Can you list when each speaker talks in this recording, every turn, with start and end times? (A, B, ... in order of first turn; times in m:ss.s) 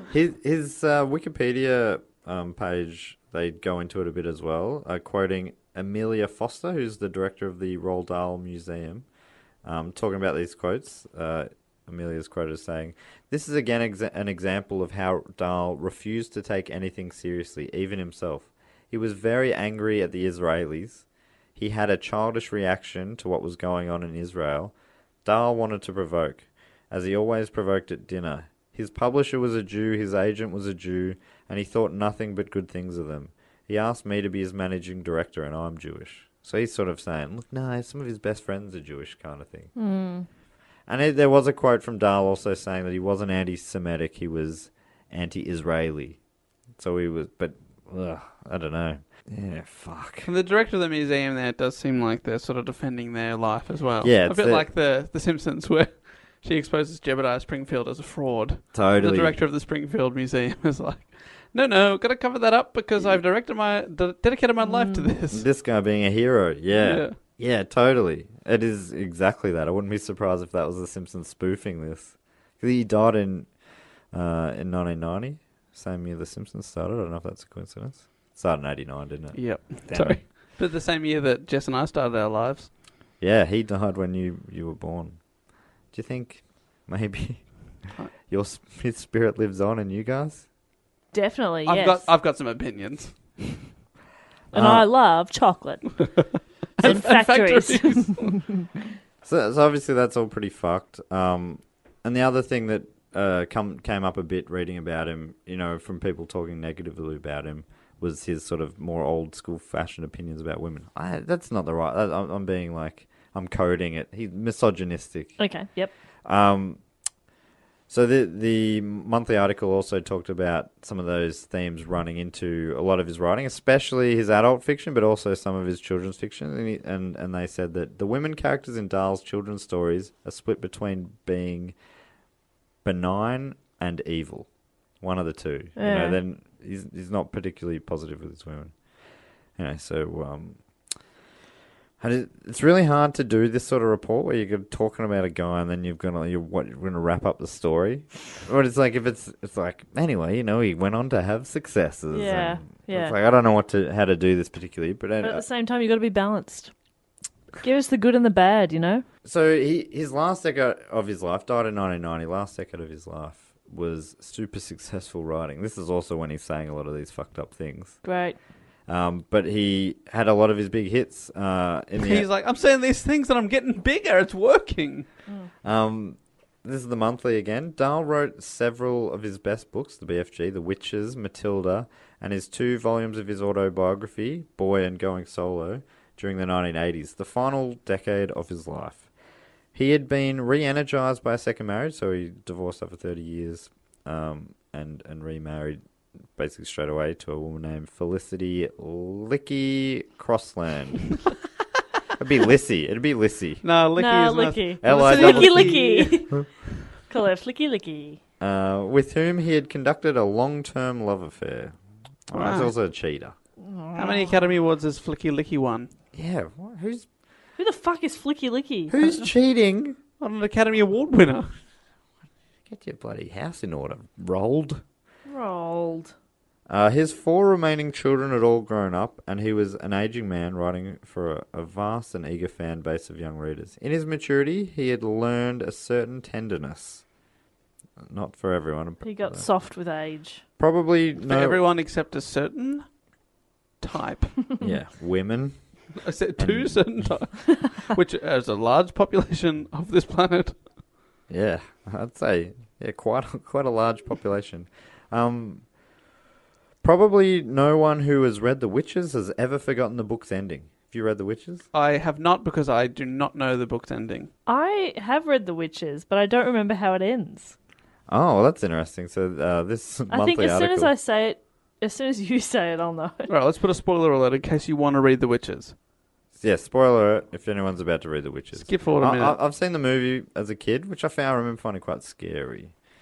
0:00.1-0:09.1 A
0:09.6-0:21.0 A
0:21.6-0:24.7 A
0:25.2-0:39.7 A
0:39.8-0:40.3 B
0:40.9-0:46.2 A
0:46.8-0:50.3 A
0:50.2-1:05.4 C
0:54.0-0:54.7 A
0:58.7-0:59.4 A
1:04.6-1:05.1 B
1:05.3-1:13.5 A
1:06.7-1:07.2 C
1:14.1-1:20.3 A
1:19.4-1:22.7 C
1:23.2-1:25.2 A
1:25.9-1:27.5 A
1:28.3-1:30.4 A
1:31.1-1:32.1 B
1:31.7-1:33.6 C
1:34.5-1:34.9 A
1:34.5-1:36.0 B
1:36.8-1:38.4 C
1:36.8-1:38.7 B
1:39.2-1:55.4 A
1:55.4-1:55.9 B
1:56.2-1:56.8 A
1:57.9-2:11.8 A
2:12.8-2:14.5 A
2:15.0-2:18.8 A
2:15.8-2:16.2 B
2:19.6-2:20.6 A
2:22.0-2:35.4 A
2:32.1-2:33.2 B
2:35.2-2:36.7 B
2:37.6-2:39.0 B
2:39.2-2:48.0 A
2:48.0-2:48.4 B
2:48.9-2:52.3 A
2:52.0-2:55.1 C
2:55.6-3:09.1 A
3:09.7-3:15.8 A
3:16.4-3:21.2 A
3:22.2-3:23.6 A
3:23.6-3:26.2 C
3:24.0-3:26.4 B
3:24.8-3:25.8 A
3:27.1-3:28.2 B
3:28.4-3:31.8 A
3:32.3-3:33.4 A
3:32.3-3:32.7 C
3:33.6-3:34.5 B
3:34.0-3:35.9 C
3:36.1-3:37.1 A
3:37.6-3:39.0 B
3:38.9-3:40.0 A
3:40.2-3:41.5 C
3:42.7-3:44.8 A
3:45.3-3:46.2 B
3:46.7-3:57.0 A
3:58.0-3:59.5 A
3:59.0-4:00.4 B
4:00.6-4:01.6 A
4:01.3-4:02.9 C
4:03.8-4:04.4 C
4:04.6-4:05.6 A
4:06.0-4:10.6 C
4:06.4-4:07.2 A
4:11.3-4:15.6 A
4:16.8-4:21.6 A
4:21.7-4:24.3 C
4:24.5-4:27.6 B
4:28.1-4:30.9 A
4:30.1-4:33.3 B
4:33.3-4:35.8 C
4:36.4-4:42.7 A
4:38.6-4:39.4 C